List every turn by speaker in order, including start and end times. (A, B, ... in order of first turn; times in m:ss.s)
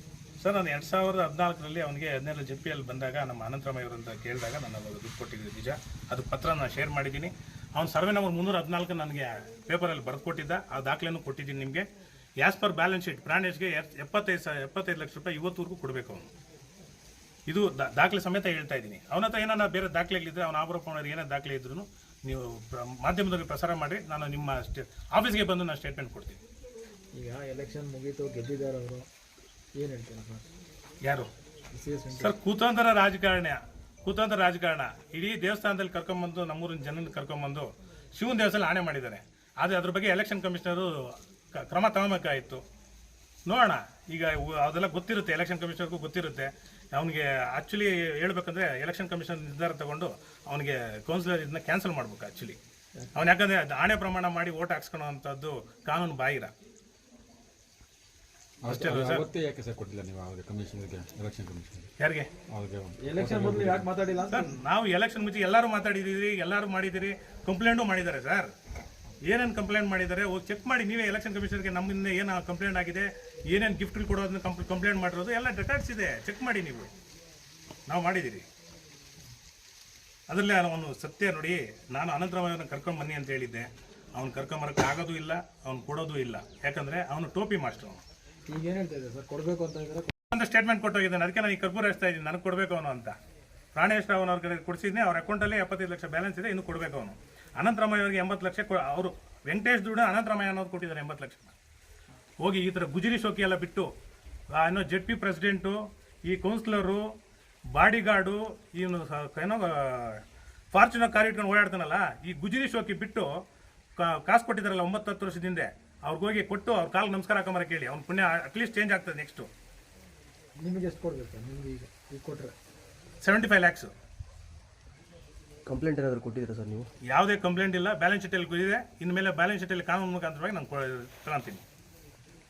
0:00.4-0:11.9 A
0:12.4-0:16.3 A
0:17.5-0:26.4 A
0:27.2-0:29.1 B
0:29.8-0:30.4 B
0:31.0-0:31.3 A
0:31.7-0:32.4 B
0:32.1-0:42.6 A
0:43.5-0:52.6 A
0:53.1-0:56.5 A
0:58.6-1:01.9 C
0:58.7-0:59.3 A
1:02.0-1:02.3 A
1:02.5-1:03.9 C
1:03.2-1:04.3 B
1:03.2-1:04.4 D
1:04.3-1:08.5 A
1:09.2-1:16.9 A
1:17.9-1:18.5 A
1:20.3-1:28.0 A
1:28.5-1:30.1 B
1:30.3-1:33.2 A
1:33.8-1:41.6 A
1:42.4-1:43.9 A
1:44.5-1:47.1 A
1:47.7-1:53.3 A
1:54.0-1:59.5 A
2:00.6-2:02.5 B
2:03.2-2:03.9 A
2:05.7-2:06.9 D
2:07.1-2:11.6 A